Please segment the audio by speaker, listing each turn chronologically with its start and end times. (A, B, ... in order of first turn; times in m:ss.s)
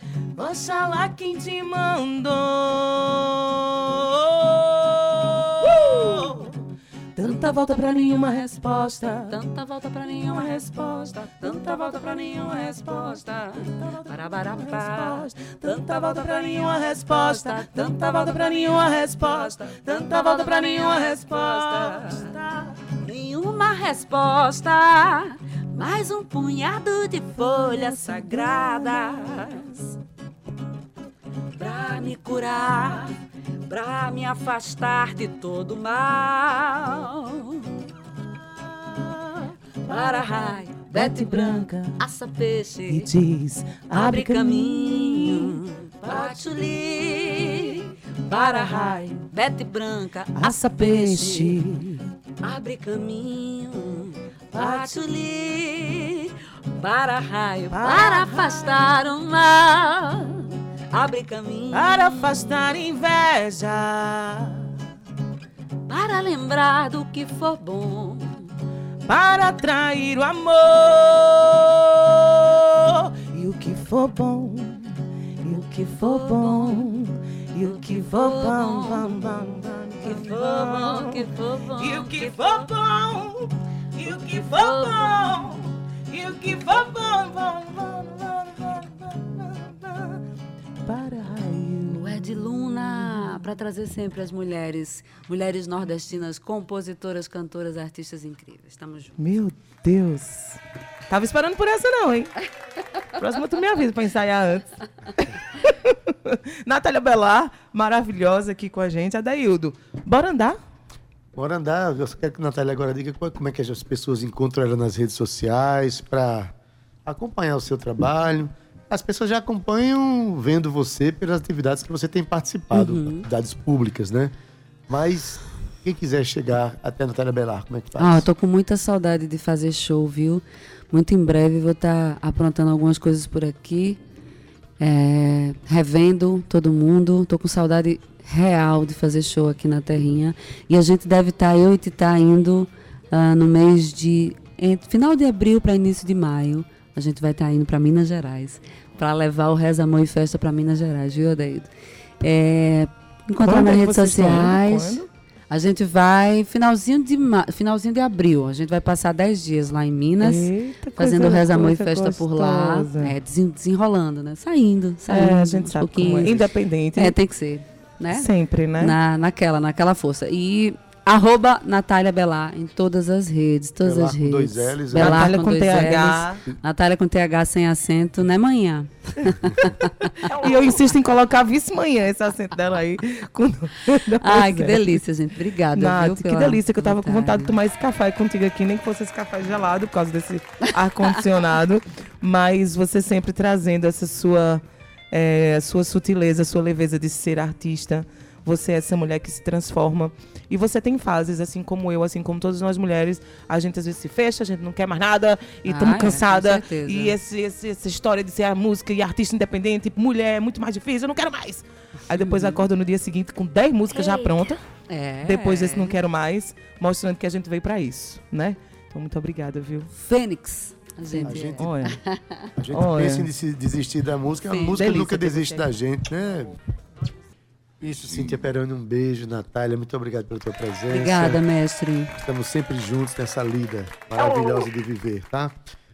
0:00.4-0:06.6 A
0:05.6-0:06.3 B
0:07.2-0:09.4 A
0:07.3-0:22.3 B
0:10.4-0:12.0 A
0:13.6-0:22.7 A
0:23.0-0:29.9 B
0:27.6-0:29.2 A
0:31.6-0:33.1 B
0:33.7-0:37.7 B
0:39.0-0:42.0 A
0:39.9-0:43.1 B
0:42.9-0:46.3 A
0:43.9-0:51.5 B
0:48.3-0:49.1 A
0:50.4-0:52.0 A
0:52.4-1:02.6 B
0:54.5-0:55.0 A
0:57.7-0:58.8 A
1:01.7-1:04.6 A
1:05.9-1:08.5 B
1:09.1-1:14.8 A
1:15.4-1:30.2 A
1:16.0-1:16.8 B
1:17.6-1:19.1 B
1:20.0-1:22.7 B
1:24.4-1:25.4 B
1:30.8-1:32.2 A
1:31.9-1:39.2 B
1:39.2-1:42.3 A
1:43.1-1:44.7 A
1:45.5-1:50.6 A
1:51.3-1:56.5 C
1:57.0-2:04.3 C
2:02.7-2:03.2 B
2:04.9-2:08.3 C
2:08.0-2:14.0 B
2:14.8-2:31.7 B
2:32.2-2:46.3 B
2:33.4-2:35.1 A
2:40.2-2:43.1 A
2:45.1-2:47.2 A
2:47.0-3:00.4 B
2:48.1-2:49.0 A
2:53.8-2:55.7 C
2:55.0-2:56.4 A
3:00.2-3:05.0 A
3:04.2-3:07.5 B
3:05.7-3:34.6 A
3:25.6-3:27.1 B
3:32.2-3:32.6 B
3:34.9-3:35.9 B
3:35.2-3:39.9 A
3:39.9-3:42.4 B
3:41.1-3:42.0 A
3:41.2-3:41.7 C
3:42.6-3:46.5 C
3:42.7-3:43.3 A
3:44.5-3:44.8 B
3:44.7-3:45.7 A
3:47.8-3:51.4 C
3:50.9-3:52.1 B
3:52.1-3:55.6 C